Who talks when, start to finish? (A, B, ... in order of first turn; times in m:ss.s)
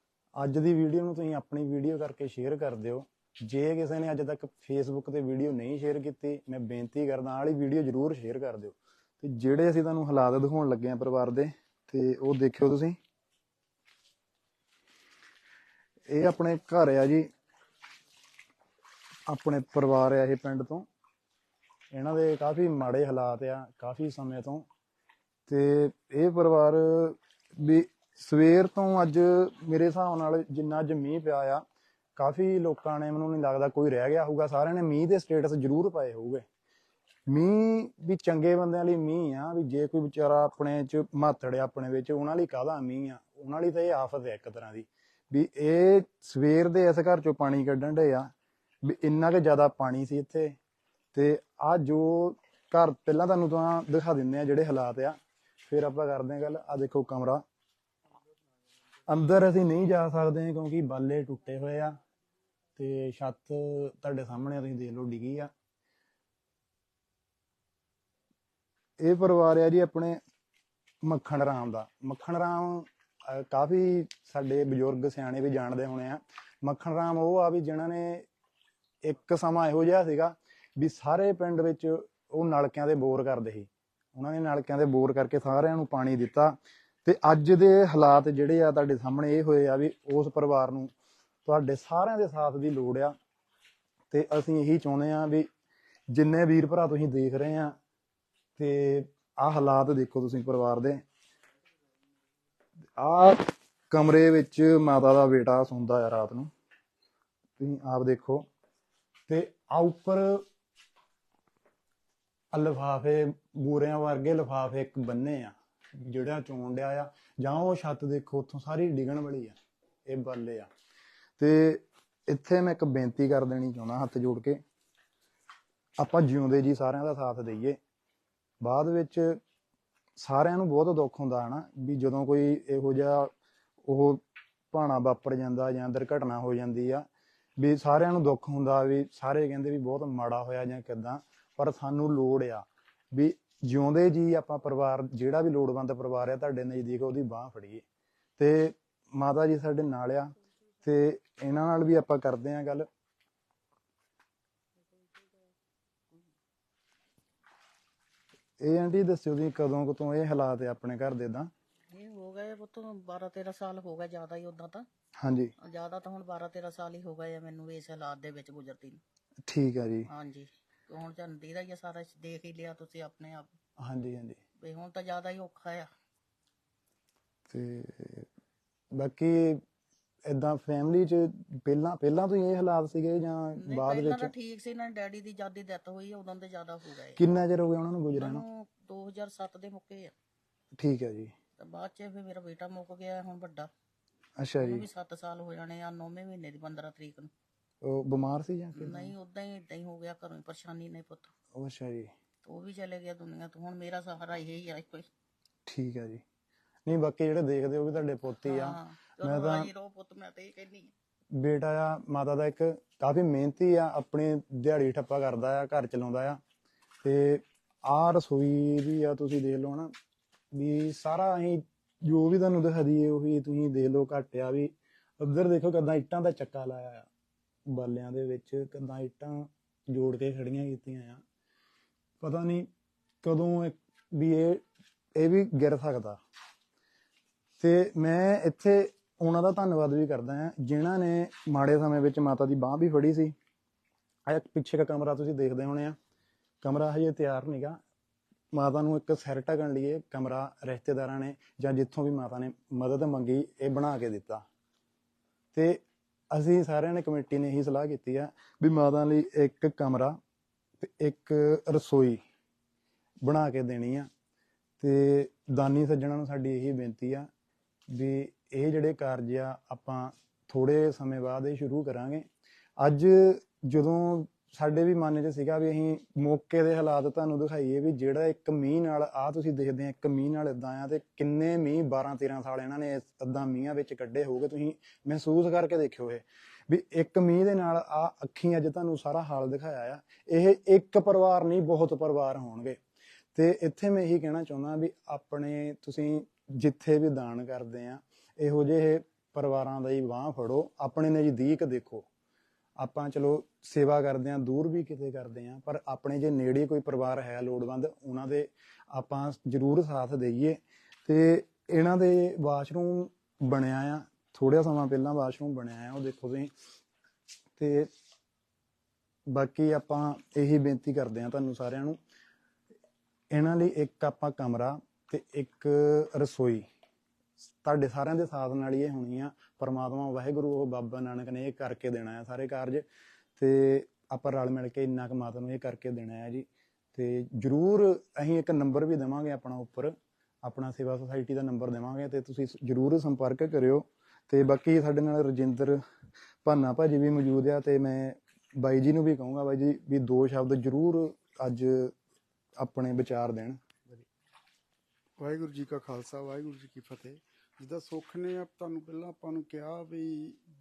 0:00.4-0:13.0 A
0:16.1-0:17.2 A
0:19.3-0:20.9 A
0:21.9-0:24.6 A
0:25.5-0:31.6 A
0:32.2-0:36.4 A
0:37.3-0:48.3 A
0:48.8-0:50.6 A
0:51.1-0:57.4 A
0:59.1-1:02.0 A
1:02.8-1:05.5 A
1:09.0-1:10.2 A
1:11.0-1:18.2 A
1:19.0-1:30.9 A
1:31.4-1:33.1 A
1:34.1-1:35.5 A
1:36.1-1:37.8 A
1:38.6-1:41.0 A
1:43.0-1:46.5 A
1:47.6-1:48.4 A
1:49.3-1:50.4 A
1:52.5-2:00.7 A
2:01.4-2:04.6 A
2:06.0-2:07.8 A
2:08.6-2:09.4 A
2:10.2-2:13.3 A
2:13.8-2:17.0 A
2:17.6-2:27.8 A
2:28.4-2:30.3 A
2:30.8-2:32.9 A
2:38.6-2:41.5 A
2:41.9-2:44.8 B
2:45.2-2:45.5 A
2:45.6-2:49.0 B
2:49.4-2:50.1 A
2:50.1-2:53.5 B
2:53.8-2:54.4 A
2:54.6-2:55.9 B
2:57.5-2:58.3 A
2:59.0-2:59.6 A
3:00.3-3:04.3 A
3:03.6-3:07.2 B
3:07.2-3:08.4 A
3:08.1-3:10.1 B
3:10.8-3:11.3 A
3:11.6-3:13.7 B
3:14.4-3:14.8 A
3:14.6-3:17.3 B
3:17.8-3:19.1 A
3:18.8-3:21.3 B
3:21.5-3:22.1 A
3:22.4-3:25.1 B
3:25.6-3:26.2 A
3:26.8-3:29.7 A
3:28.4-3:30.9 B
3:31.3-3:36.4 A
3:37.0-3:39.9 A
3:40.5-3:47.1 A
3:47.7-3:51.2 A
3:52.2-3:52.7 A
3:53.2-3:54.6 A
3:55.2-3:56.2 A
3:57.6-4:03.3 A
4:04.3-4:06.0 A
4:06.6-4:07.8 A
4:08.5-4:14.4 A
4:15.5-4:20.2 A
4:20.8-4:22.2 A
4:23.2-4:24.1 A
4:24.8-4:27.3 A
4:27.9-4:32.2 A
4:32.8-4:52.8 A
4:53.3-5:02.1 A
5:02.8-5:16.5 A
5:17.6-5:17.9 A
5:19.3-5:22.0 A
5:23.3-5:26.6 A
5:27.6-5:32.8 A
5:33.4-5:45.8 A
5:46.4-5:51.9 A
5:52.6-5:54.0 A
5:55.2-6:00.4 C